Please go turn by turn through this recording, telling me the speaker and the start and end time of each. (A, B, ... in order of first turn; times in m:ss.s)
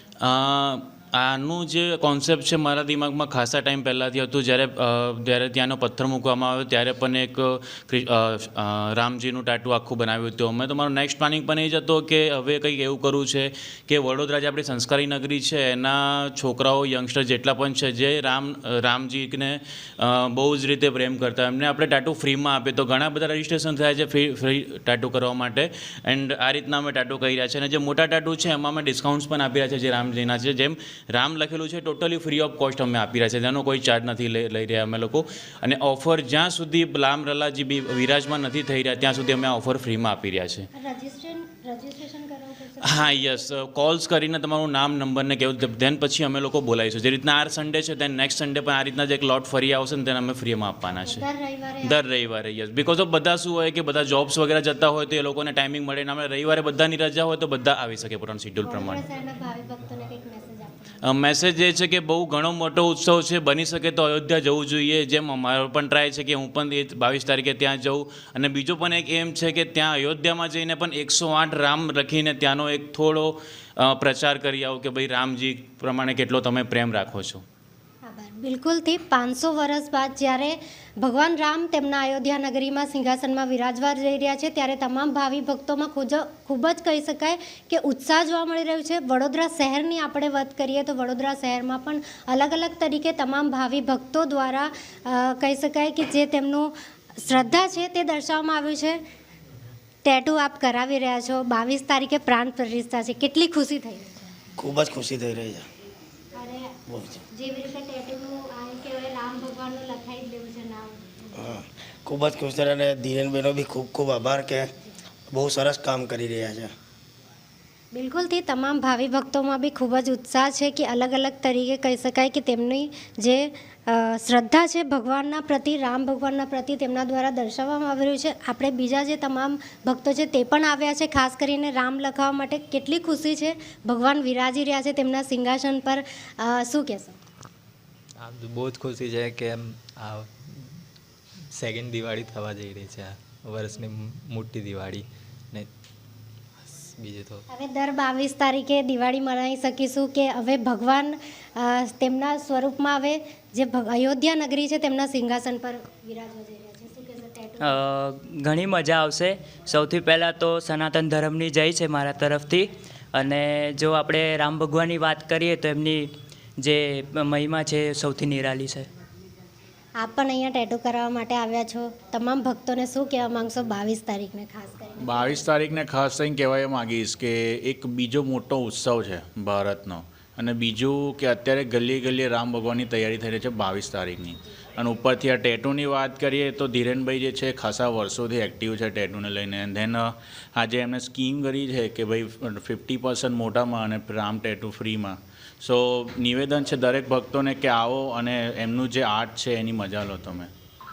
0:00.2-0:40.7 A
0:40.8-0:43.4 B
0:42.8-0:51.2 A
0:51.0-0:51.9 B
0:51.8-0:59.0 A
0:58.6-1:01.1 B
1:01.1-1:17.4 A
1:18.0-1:39.0 B
1:40.0-1:44.3 B
1:44.6-1:45.6 C
1:46.4-1:46.8 B
1:46.9-1:47.2 C
1:47.3-1:51.1 B
1:51.4-1:54.7 C
1:55.3-1:56.7 C
1:57.9-2:17.2 B
2:18.2-2:20.3 D
2:21.6-2:25.7 D
2:26.6-2:27.4 D
2:27.5-2:37.8 B
2:37.6-2:48.9 E
2:50.0-2:55.5 B
2:55.0-3:20.5 F